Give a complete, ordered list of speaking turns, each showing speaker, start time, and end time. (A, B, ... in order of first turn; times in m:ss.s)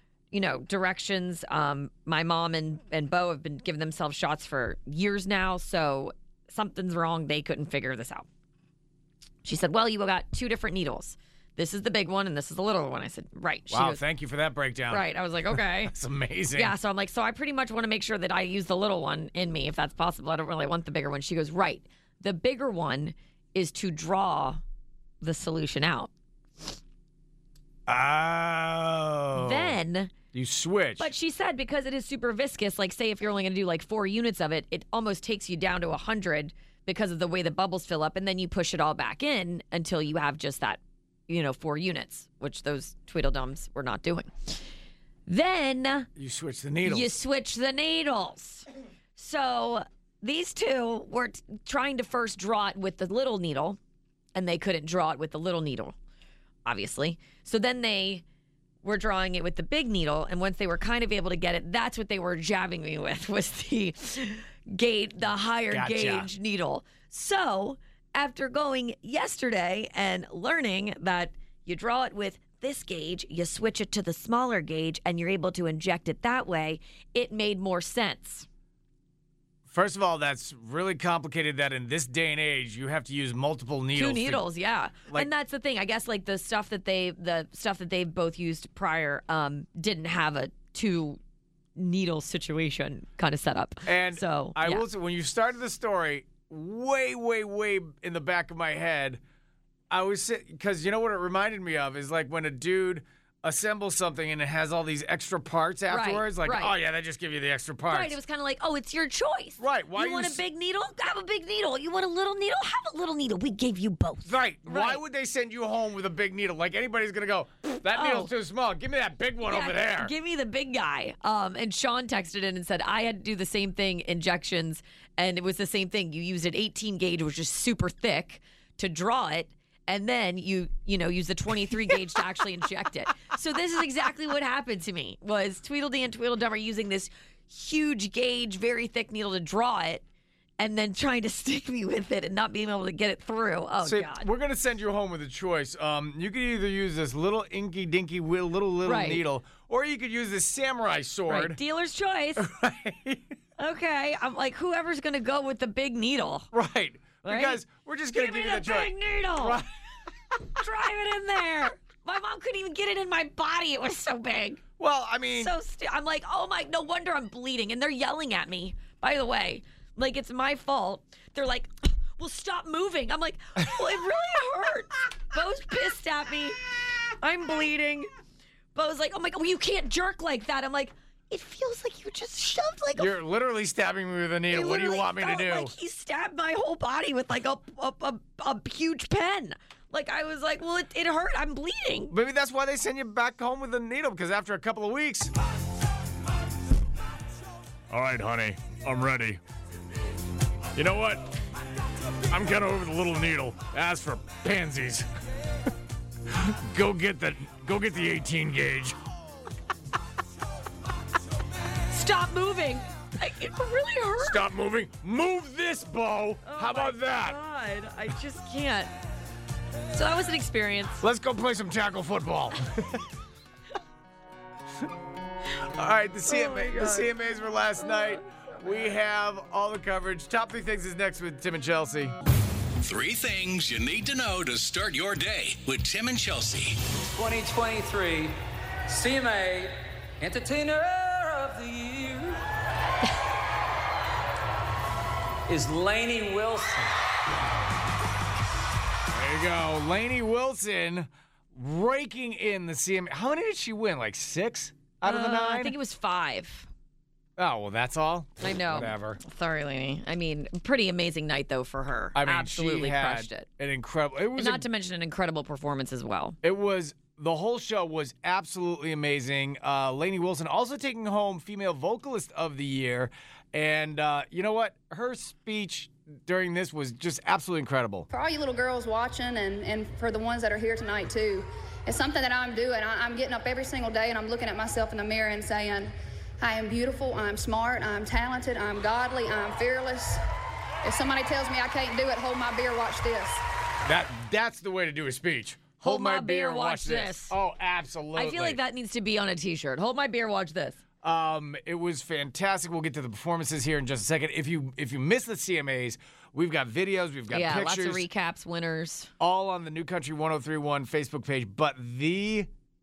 0:00.3-0:08.3 A
0:09.4-0:14.0 A
0:13.7-0:16.7 B
0:14.9-0:15.9 A
0:16.5-0:24.6 A
0:25.2-0:26.1 A
0:27.9-0:29.8 B
0:29.3-0:30.1 A
0:30.3-0:31.1 B
0:31.0-0:44.6 A
0:45.3-0:46.1 A
0:46.2-0:47.1 B
0:46.8-0:53.8 A
0:54.3-0:55.9 A
0:56.6-0:58.2 A
0:58.8-1:18.5 A
1:05.7-1:06.3 B
1:19.7-1:24.4 B
1:23.9-1:31.2 A
1:31.8-1:34.8 A
1:33.8-1:39.2 B
1:39.9-1:48.2 B
1:45.9-1:46.7 A
1:47.9-1:55.0 A
1:49.6-1:50.4 B
1:54.2-2:00.1 B
1:57.9-1:58.3 A
1:59.4-2:20.0 A
2:20.6-2:24.3 A
2:23.8-2:31.6 B
2:28.8-2:29.2 A
2:31.3-2:32.4 A
2:32.4-2:33.3 B
2:33.6-2:36.5 A
2:36.5-2:39.7 B
2:37.2-2:39.6 A
2:40.5-2:44.6 A
2:44.8-2:45.5 B
2:45.3-2:56.6 A
2:57.2-2:58.1 A
2:58.7-3:03.2 A
3:03.0-3:05.7 B
3:04.5-3:12.1 A
3:12.1-3:15.3 B
3:17.9-3:19.4 B
3:20.7-3:21.4 B
3:22.3-3:25.1 B
3:26.3-3:29.0 B
3:31.9-3:34.4 A
3:34.2-3:37.4 B
3:36.4-3:38.9 A
3:39.9-3:41.0 A
3:41.0-3:43.0 B
3:45.6-3:52.1 B
3:46.2-3:49.0 A
3:52.8-3:56.8 C
3:57.1-4:02.4 D
4:05.5-4:06.9 D
4:09.1-4:15.8 B
4:15.0-4:16.7 A
4:17.4-4:19.2 B
4:18.4-4:23.5 A
4:22.1-4:24.6 B
4:24.3-4:26.4 A
4:26.4-4:38.1 B
4:38.1-4:50.2 E
4:50.8-4:53.4 E
4:53.8-4:58.6 B
4:55.8-4:57.3 A
4:58.1-5:00.8 A
5:01.0-5:08.0 B
5:07.3-5:09.1 A
5:09.2-5:12.5 B